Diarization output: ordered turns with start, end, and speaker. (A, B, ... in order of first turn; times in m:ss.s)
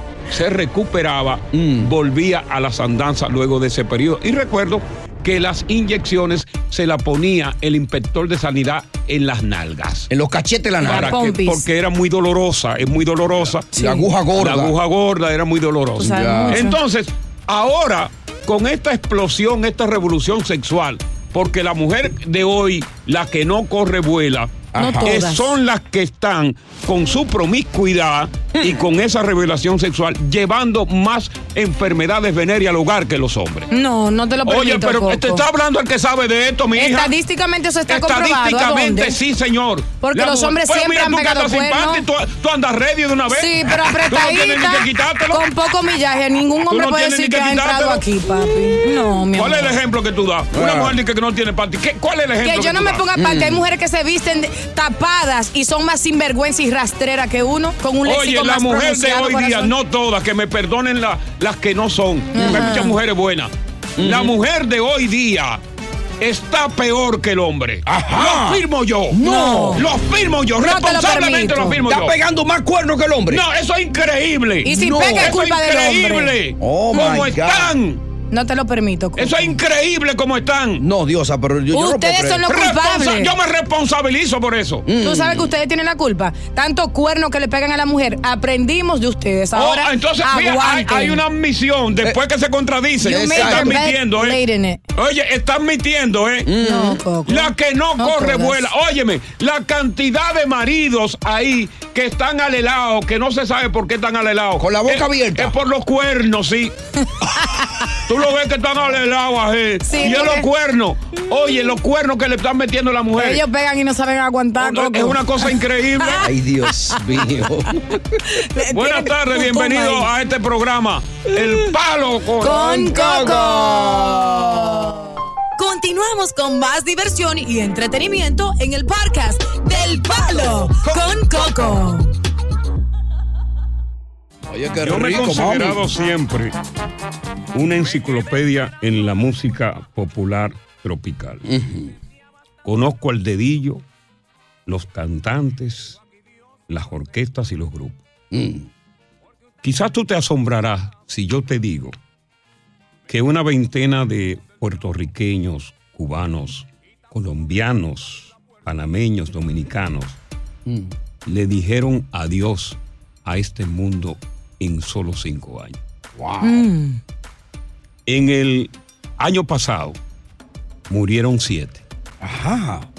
0:00.3-0:10.1 A
0:01.5-0:01.9 B
0:10.1-0:11.2 B
0:10.8-0:11.6 C
0:10.8-0:13.6 A
0:13.7-0:14.8 B
0:13.7-0:14.1 C
0:14.4-0:33.7 A
0:16.0-0:16.8 C
0:16.0-0:16.6 B
0:24.7-0:25.2 B
0:24.8-0:25.5 C
0:28.6-0:28.9 B
0:33.7-0:35.4 C
0:34.4-0:37.1 A
0:36.8-0:39.2 C
0:37.9-0:45.5 A
0:40.0-0:42.0 C
0:43.3-0:49.8 C
0:46.7-0:48.0 A
0:49.3-0:53.0 A
0:50.5-0:51.0 B
0:52.4-0:59.7 C
0:53.1-0:53.6 B
0:58.0-1:05.6 A
1:02.3-1:03.0 C
1:02.4-1:02.7 B
1:04.0-1:04.3 B
1:06.2-1:09.2 A
1:07.9-1:09.9 B
1:09.2-1:09.8 C
1:09.7-1:12.2 A
1:10.6-1:11.8 C
1:11.8-1:13.4 B
1:13.3-1:18.0 A
1:14.6-1:16.3 C
1:14.7-1:15.4 B
1:16.6-1:17.7 B
1:18.3-1:19.6 C
1:19.2-1:20.8 A
1:20.8-1:22.4 B
1:21.7-1:23.3 C
1:22.4-1:24.8 A
1:24.9-1:25.5 B
1:25.0-1:31.2 C
1:29.5-1:34.4 A
1:33.0-1:33.8 B
1:33.0-1:34.8 C
1:34.9-1:36.5 A
1:36.4-1:37.0 B
1:36.6-1:38.7 C
1:37.3-1:46.7 A
1:44.6-1:45.6 B
1:47.4-1:47.7 C
1:48.1-1:53.4 A
1:49.8-1:50.5 C
1:53.2-1:55.5 C
1:54.6-1:56.3 A
1:56.2-1:58.2 B
1:58.3-2:00.1 C
1:58.7-2:03.5 A
2:02.4-2:12.1 C
2:02.8-2:04.8 B
2:10.8-2:11.3 B
2:14.5-2:15.8 B
2:14.8-2:16.5 A
2:17.5-2:21.4 A
2:21.4-2:21.9 B
2:22.6-2:23.8 A
2:24.6-2:26.0 A
2:26.7-2:28.0 A
2:28.3-2:28.7 B
2:29.6-2:31.9 A
2:33.1-2:40.2 A
2:40.6-2:40.9 B
2:41.3-2:45.8 A
2:46.2-2:46.6 B
2:46.4-2:47.0 C
2:48.1-2:50.0 A
2:50.9-2:51.8 A
2:52.2-2:52.9 B